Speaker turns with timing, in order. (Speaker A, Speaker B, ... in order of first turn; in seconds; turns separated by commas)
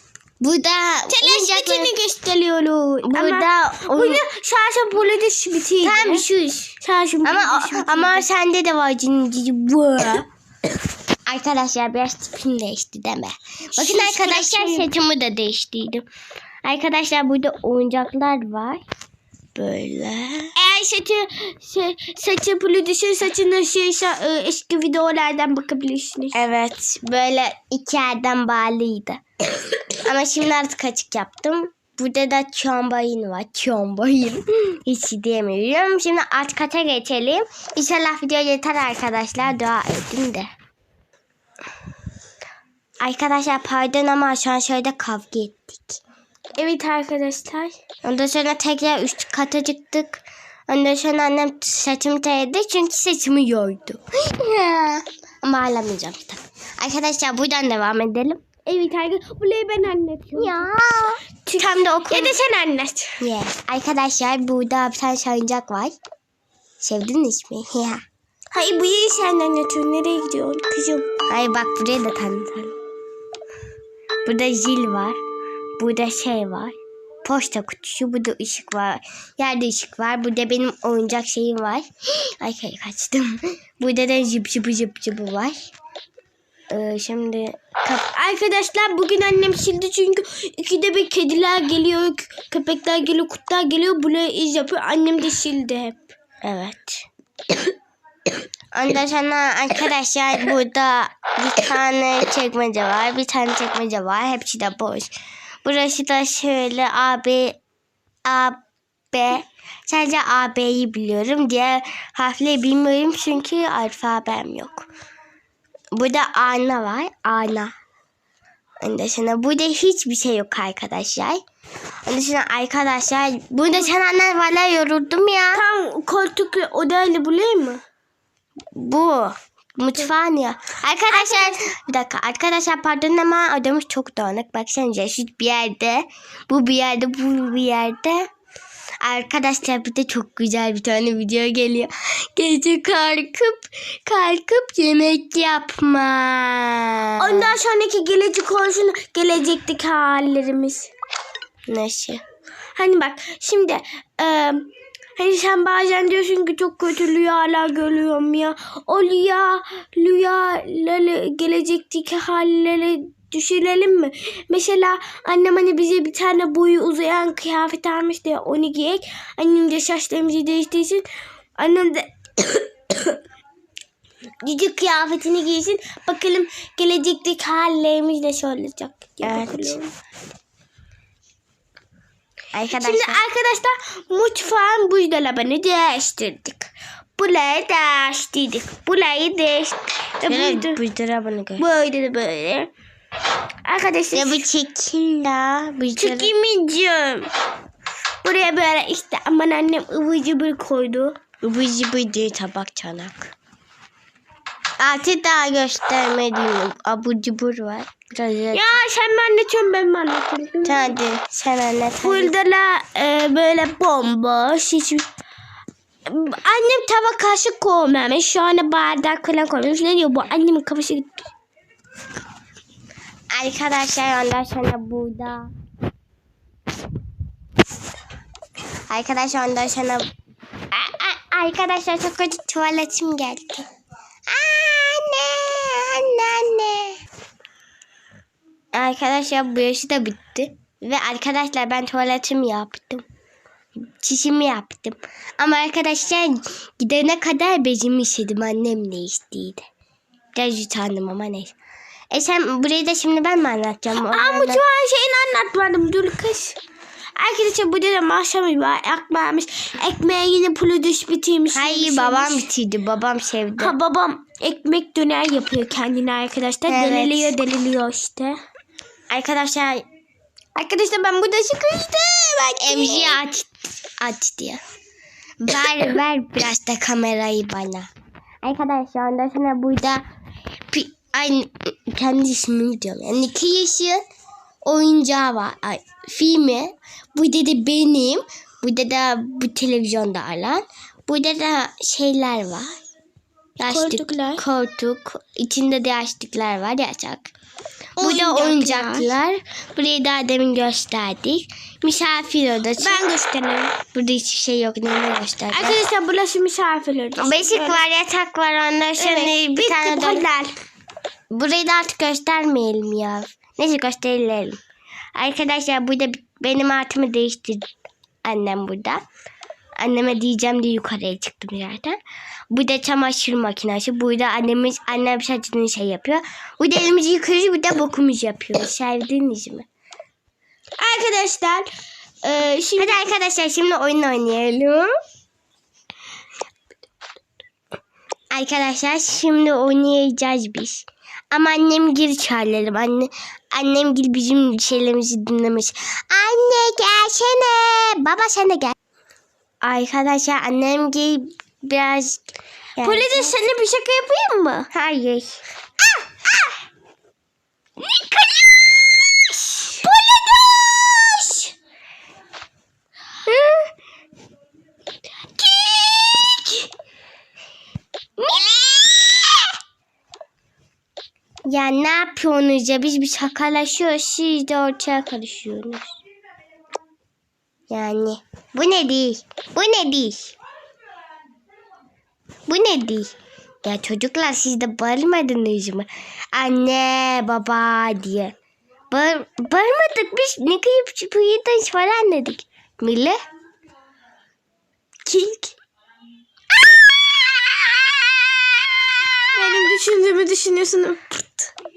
Speaker A: 0.4-1.9, Speaker B: 1.1-6.2, Speaker A: 3.1-4.2, Speaker A: 5.8-10.3, Speaker B: 6.8-8.2, Speaker A: 11.3-16.1, Speaker B: 13.8-14.9, Speaker A: 16.6-18.8, Speaker A: 19.6-20.5, Speaker B: 20.6-26.3, Speaker A: 26.3-29.2, Speaker A: 30.0-40.5, Speaker A: 43.0-46.0, Speaker B: 46.6-47.7, Speaker A: 48.0-58.4, Speaker B: 58.6-60.7, Speaker A: 60.4-62.3, Speaker B: 61.5-63.2, Speaker A: 63.2-66.0, Speaker A: 66.8-68.0, Speaker B: 68.5-71.1, Speaker A: 71.3-72.8, Speaker A: 74.2-75.2, Speaker A: 75.8-85.7, Speaker A: 86.7-88.1, Speaker B: 88.1-96.1, Speaker A: 96.4-97.1, Speaker A: 98.7-105.1, Speaker A: 105.6-107.6, Speaker A: 108.3-108.6, Speaker A: 109.1-114.9, Speaker A: 115.9-117.7, Speaker A: 118.8-121.4, Speaker A: 122.1-125.6, Speaker B: 125.5-127.8, Speaker A: 128.7-138.2, Speaker B: 131.1-131.6, Speaker A: 139.0-147.5, Speaker B: 147.2-150.9, Speaker A: 151.7-152.2, Speaker B: 152.8-171.1, Speaker B: 171.6-173.2, Speaker B: 174.4-179.9, Speaker A: 179.2-179.8, Speaker A: 182.5-183.2, Speaker B: 182.7-190.8, Speaker A: 190.3-191.7, Speaker B: 191.6-192.7, Speaker B: 193.7-194.5, Speaker A: 194.1-196.3, Speaker B: 196.0-197.3, Speaker B: 198.2-201.2, Speaker A: 201.4-203.2, Speaker A: 204.8-208.8, Speaker B: 208.5-211.0, Speaker A: 210.7-212.3, Speaker B: 212.0-215.1, Speaker B: 216.1-221.3, Speaker A: 223.3-225.5, Speaker A: 228.9-230.1, Speaker A: 230.7-233.6, Speaker A: 234.3-237.0, Speaker A: 238.7-243.1, Speaker A: 243.8-249.6, Speaker A: 250.3-251.5, Speaker A: 252.1-254.6, Speaker B: 253.9-256.6, Speaker B: 257.2-262.5, Speaker A: 261.5-263.8, Speaker B: 263.6-268.4, Speaker A: 266.7-267.4, Speaker A: 269.1-269.8, Speaker B: 270.6-273.2, Speaker A: 272.6-273.5, Speaker A: 274.0-274.6, Speaker A: 275.4-277.9, Speaker A: 278.4-280.0, Speaker A: 280.7-284.0, Speaker A: 284.6-292.7, Speaker A: 293.6-297.3, Speaker B: 293.7-294.4, Speaker B: 298.0-299.1, Speaker A: 298.0-303.0, Speaker B: 302.8-303.7, Speaker A: 303.9-305.8, Speaker B: 305.5-307.8, Speaker A: 307.2-310.2, Speaker B: 309.0-310.6, Speaker A: 311.3-314.6, Speaker A: 315.2-317.6, Speaker A: 318.2-319.0, Speaker A: 319.8-322.0, Speaker A: 322.5-329.7, Speaker B: 330.8-331.7, Speaker B: 332.2-333.1, Speaker A: 332.8-334.9, Speaker A: 338.3-348.8, Speaker A: 349.6-353.4, Speaker B: 352.8-354.7, Speaker A: 354.7-355.4, Speaker A: 357.9-361.4, Speaker B: 359.9-360.7, Speaker A: 363.3-363.7, Speaker A: 365.4-366.6, Speaker A: 368.2-369.5, Speaker A: 371.5-376.0, Speaker A: 377.7-380.4, Speaker A: 382.5-383.1, Speaker A: 383.6-388.3, Speaker A: 388.9-393.2, Speaker B: 395.1-395.6, Speaker A: 396.7-399.6, Speaker B: 399.3-401.5